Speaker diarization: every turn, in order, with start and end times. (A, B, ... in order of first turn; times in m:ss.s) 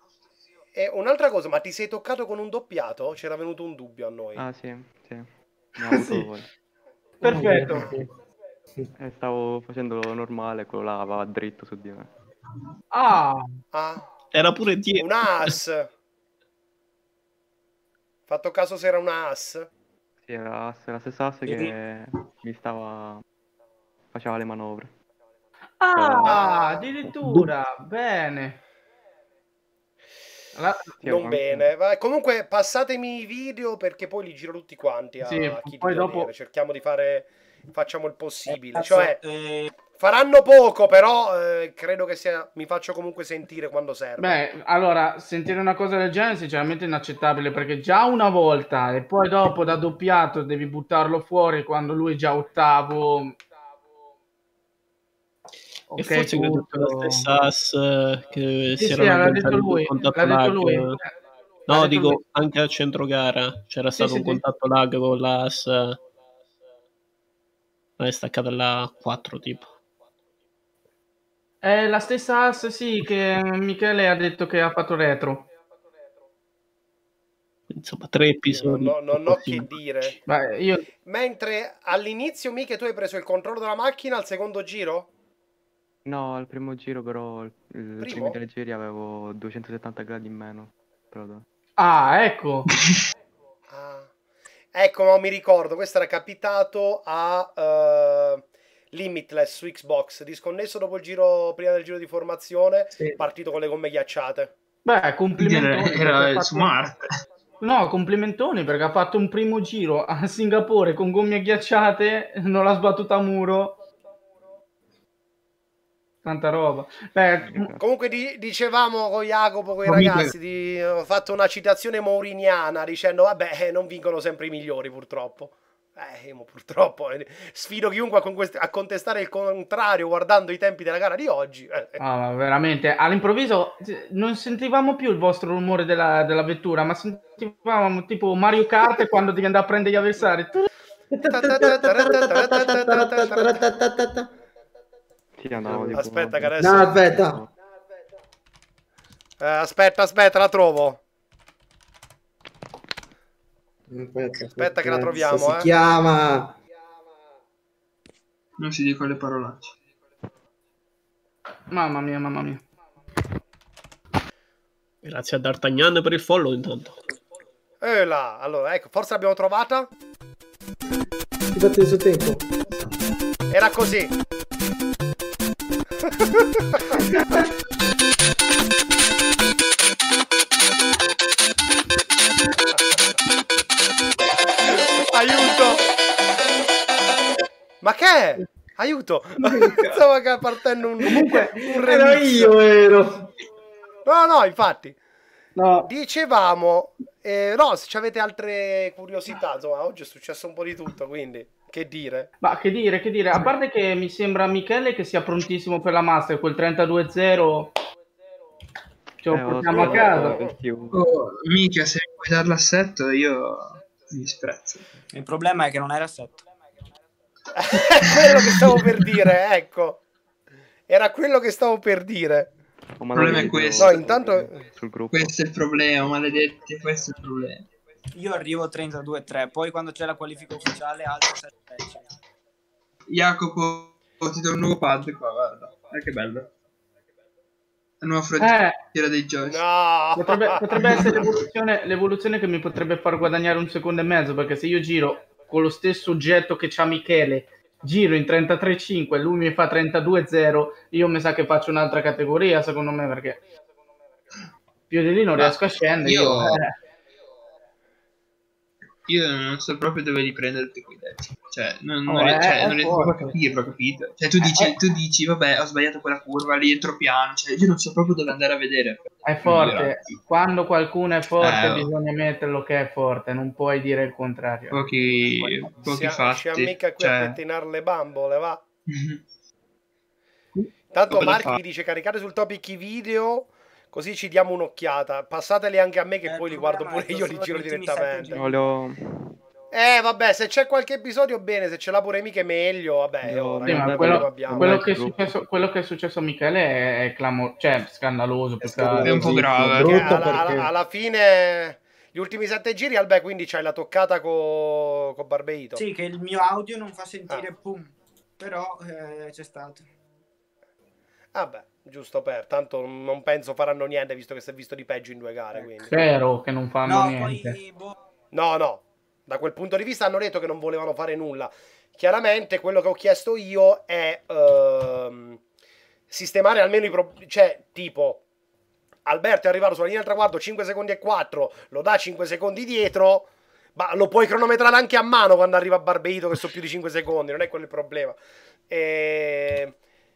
0:00.8-0:04.4 A
0:04.4-0:06.5 B
0:05.9-0:06.3 C
0:07.2-0:08.0 A
0:07.2-0:08.1 C
0:07.3-0:07.9 D
0:09.0-0:12.1 B
0:12.9-0:13.6 C
0:13.7-0:14.0 A
0:14.3-0:15.6 E
0:15.0-0:15.9 A
0:18.3-0:19.7 A
0:20.2-0:23.2 B
0:21.5-0:21.7 F
0:24.1-0:24.9 B
0:25.8-0:28.6 C
0:26.0-0:26.5 B
0:26.2-0:26.9 A
0:27.0-0:27.4 B
0:30.5-0:31.0 C
0:31.0-0:31.7 B
0:31.1-0:39.2 A
0:35.2-0:36.3 C
0:38.4-0:39.7 F
0:40.0-0:44.4 A
0:44.2-0:53.4 C
0:55.9-0:57.3 C
0:56.0-1:01.0 E
0:58.8-1:01.1 C
1:01.7-1:06.0 E
1:01.7-1:02.2 C
1:04.0-1:04.4 C
1:08.0-1:09.7 E
1:11.6-1:15.5 C
1:17.7-1:20.2 E
1:18.5-1:20.2 A
1:20.3-1:20.9 C
1:21.0-1:25.1 A
1:26.0-1:31.4 B
1:28.0-1:28.4 A
1:31.8-1:32.7 C
1:33.7-1:34.1 A
1:34.7-1:44.5 A
1:42.9-1:43.2 D
1:44.8-1:46.8 C
1:45.4-1:47.1 G
1:47.6-1:53.8 C
1:56.2-1:57.7 C
1:57.4-1:57.8 B
1:57.8-2:12.0 A
1:59.8-2:00.3 G
2:12.0-2:20.7 C
2:21.1-2:24.3 D
2:21.3-2:23.6 A
2:25.4-2:27.5 B
2:25.7-2:26.0 D
2:25.9-2:27.2 A
2:26.6-2:27.4 D
2:29.4-2:31.0 A
2:33.9-2:36.6 D
2:34.6-2:35.7 A
2:38.6-2:39.7 G
2:41.7-2:42.6 C
2:45.0-2:47.0 E
2:47.8-2:49.9 A
2:51.5-2:52.5 D
2:53.5-2:54.1 A
2:56.1-2:56.8 A
3:04.6-3:05.9 A
3:07.8-3:12.6 A
3:11.0-3:11.6 C
3:11.1-3:13.3 D
3:14.0-3:15.0 A
3:15.6-3:15.9 C
3:15.9-3:22.3 A
3:22.4-3:27.7 C
3:29.2-3:30.4 C
3:29.2-3:31.0 B
3:29.7-3:30.6 A
3:30.9-3:34.9 G
3:35.1-3:36.4 F
3:37.6-3:40.0 A
3:38.0-3:39.1 G
3:40.9-3:42.5 A
3:43.0-3:45.4 B
3:43.1-3:44.2 G
3:43.3-3:44.6 A
3:45.1-3:47.7 G
3:48.1-3:52.1 F
3:53.1-3:56.5 G
3:58.0-3:59.6 G
3:58.4-3:58.8 C
3:59.5-4:01.1 A
4:00.2-4:13.4 C
4:00.8-4:01.3 G
4:14.9-4:16.7 C
4:15.4-4:16.6 G
4:19.0-4:30.2 G
4:22.1-4:23.3 C
4:24.4-4:24.8 C
4:29.2-4:34.8 C
4:31.4-4:31.9 G
4:34.7-4:37.4 G
4:35.9-4:38.6 A
4:38.9-4:39.2 G
4:40.6-4:41.6 G
4:40.9-4:48.4 A
4:46.2-4:48.6 F
4:48.3-4:49.0 B
4:49.7-4:54.8 A
4:53.2-4:55.4 B
4:53.6-4:59.1 C
4:58.6-5:00.7 D
4:59.0-5:00.2 G
4:59.8-5:05.8 A
5:05.8-5:09.9 F
5:11.3-5:15.9 A
5:15.9-5:17.6 C
5:16.8-5:18.0 F
5:18.3-5:25.4 A
5:26.1-5:28.2 A
5:29.0-5:38.2 A
5:38.7-5:39.7 A